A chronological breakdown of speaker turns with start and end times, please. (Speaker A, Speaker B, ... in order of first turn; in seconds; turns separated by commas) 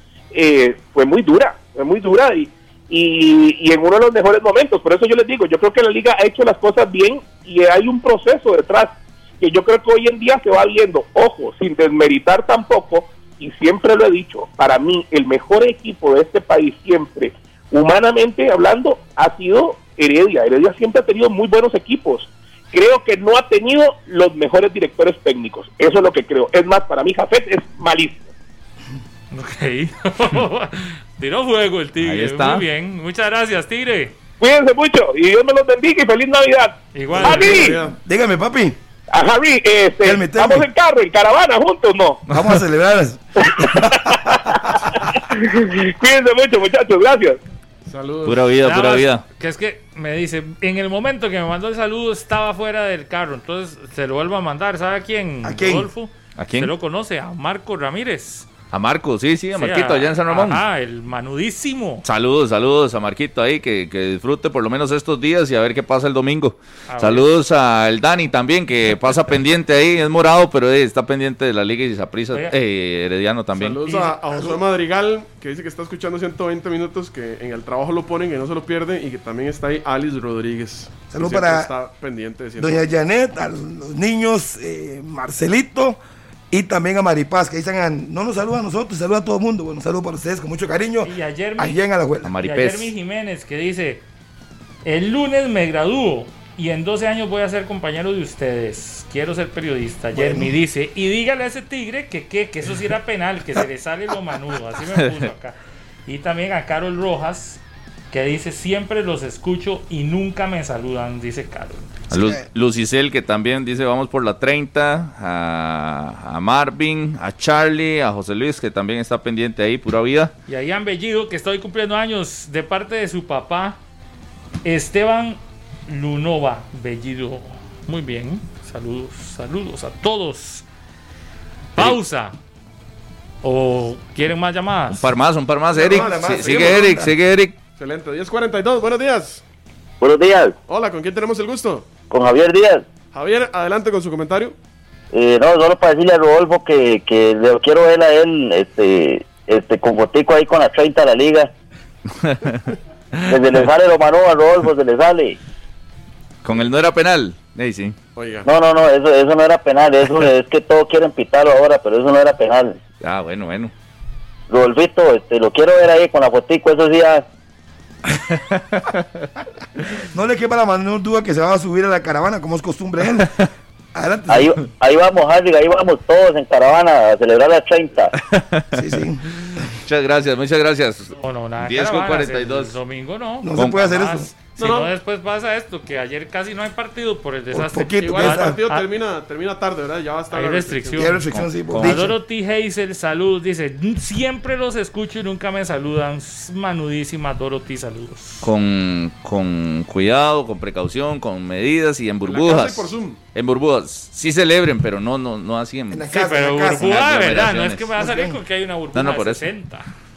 Speaker A: 0.3-28.2, Speaker B: 29.3-34.1, Speaker C: 32.0-32.6, Speaker A: 34.4-37.7, Speaker B: 36.9-37.7, Speaker D: 37.1-38.8, Speaker E: 37.2-37.9, Speaker A: 39.1-42.2, Speaker D: 40.0-40.7, Speaker D: 42.3-44.6, Speaker A: 43.4-47.4, Speaker E: 47.9-48.5, Speaker C: 48.2-49.2, Speaker B: 48.6-58.5, Speaker D: 55.4-55.9, Speaker C: 56.4-56.7, Speaker C: 58.7-60.6, Speaker B: 59.5-62.0, Speaker C: 62.0-73.8, Speaker B: 66.9-67.2, Speaker E: 73.5-82.9, Speaker B: 73.8-74.2, Speaker D: 81.1-81.7, Speaker D: 82.6-86.0, Speaker D: 86.5-92.3, Speaker B: 91.0-91.8, Speaker C: 92.2-92.9, Speaker B: 92.4-94.0, Speaker B: 94.8-107.6, Speaker D: 100.1-100.5, Speaker B: 108.1-111.9, Speaker D: 112.1-112.4, Speaker C: 112.1-120.3, Speaker B: 120.5-123.8, Speaker B: 124.6-130.6, Speaker B: 131.7-132.3, Speaker B: 133.4-135.1, Speaker C: 134.9-137.6, Speaker D: 135.7-137.1, Speaker E: 135.8-136.8, Speaker E: 137.8-139.4, Speaker F: 140.0-140.6, Speaker E: 140.7-141.9, Speaker F: 142.1-142.8, Speaker E: 143.1-144.5, Speaker F: 145.1-151.5, Speaker C: 152.2-152.7, Speaker F: 153.2-155.4, Speaker C: 156.4-157.9, Speaker E: 158.2-158.5, Speaker F: 158.4-162.8, Speaker C: 163.0-163.7, Speaker F: 164.5-167.2, Speaker C: 168.3-169.0, Speaker D: 170.1-173.3, Speaker D: 173.9-174.6, Speaker F: 174.3-178.1, Speaker C: 178.2-182.7, Speaker D: 178.7-179.6, Speaker B: 181.2-188.8, Speaker D: 183.4-184.3, Speaker C: 183.5-183.8, Speaker E: 184.6-184.9, Speaker D: 187.5-188.6, Speaker E: 188.0-191.2, Speaker B: 190.3-191.2, Speaker D: 190.9-192.2, Speaker C: 191.3-192.0, Speaker B: 191.8-198.4, Speaker C: 198.4-206.1, Speaker E: 202.2-203.2, Speaker D: 205.9-207.0, Speaker B: 206.1-209.9, Speaker C: 206.7-207.9, Speaker D: 208.0-208.4, Speaker C: 208.9-209.5